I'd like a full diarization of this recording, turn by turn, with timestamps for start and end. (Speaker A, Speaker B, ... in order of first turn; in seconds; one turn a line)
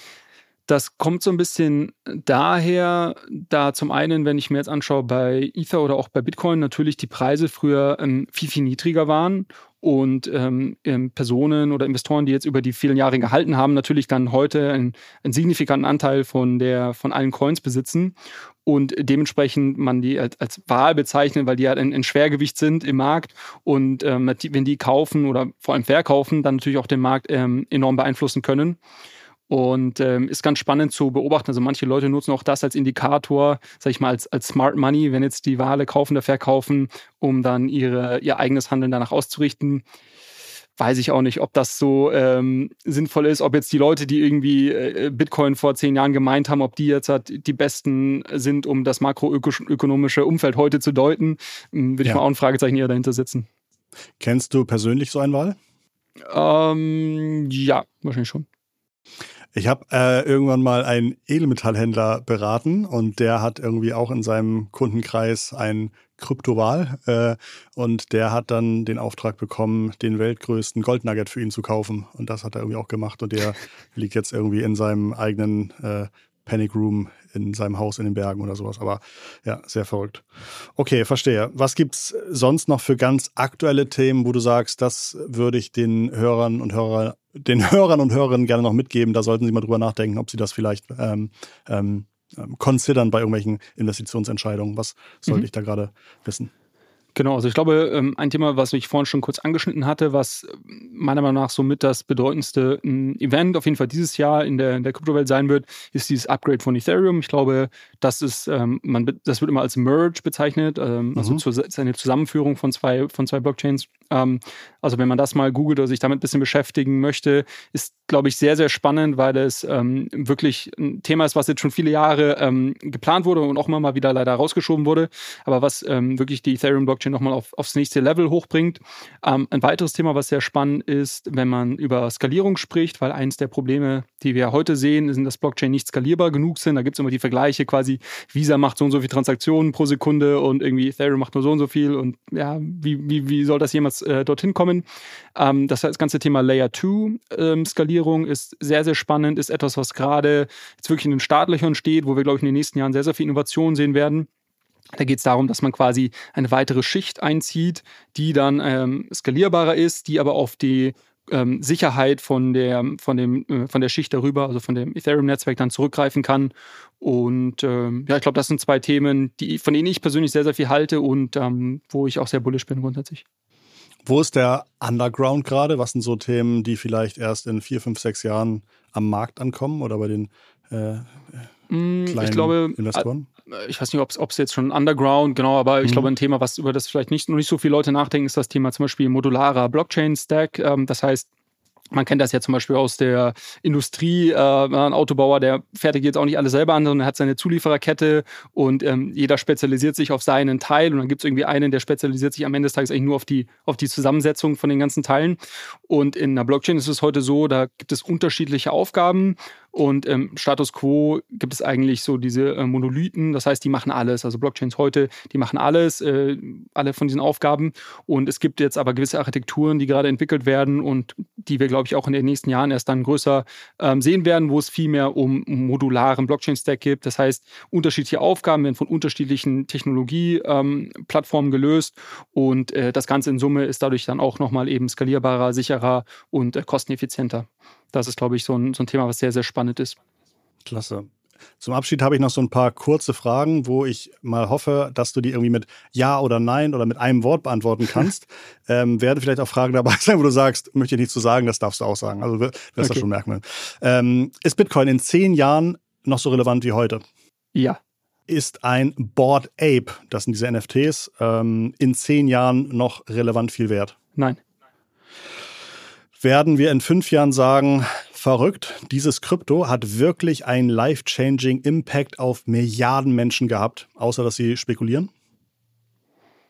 Speaker A: 0.7-28.8
Speaker A: 29.5-39.8
Speaker A: 40.8-53.5
Speaker B: 54.2-55.6
Speaker A: 56.3-58.5
Speaker B: 59.5-96.5
Speaker A: 97.2-144.8
Speaker B: 111.2-111.4
Speaker A: 145.4-154.3
Speaker A: 155.0-173.2
Speaker B: 174.1-181.5
Speaker A: 181.7-191.3
Speaker B: 182.1-183.3
Speaker A: 191.9-240.0
Speaker B: 240.7-257.0
Speaker A: 257.6-257.8
Speaker B: 258.3-263.9
Speaker B: 266.2-275.1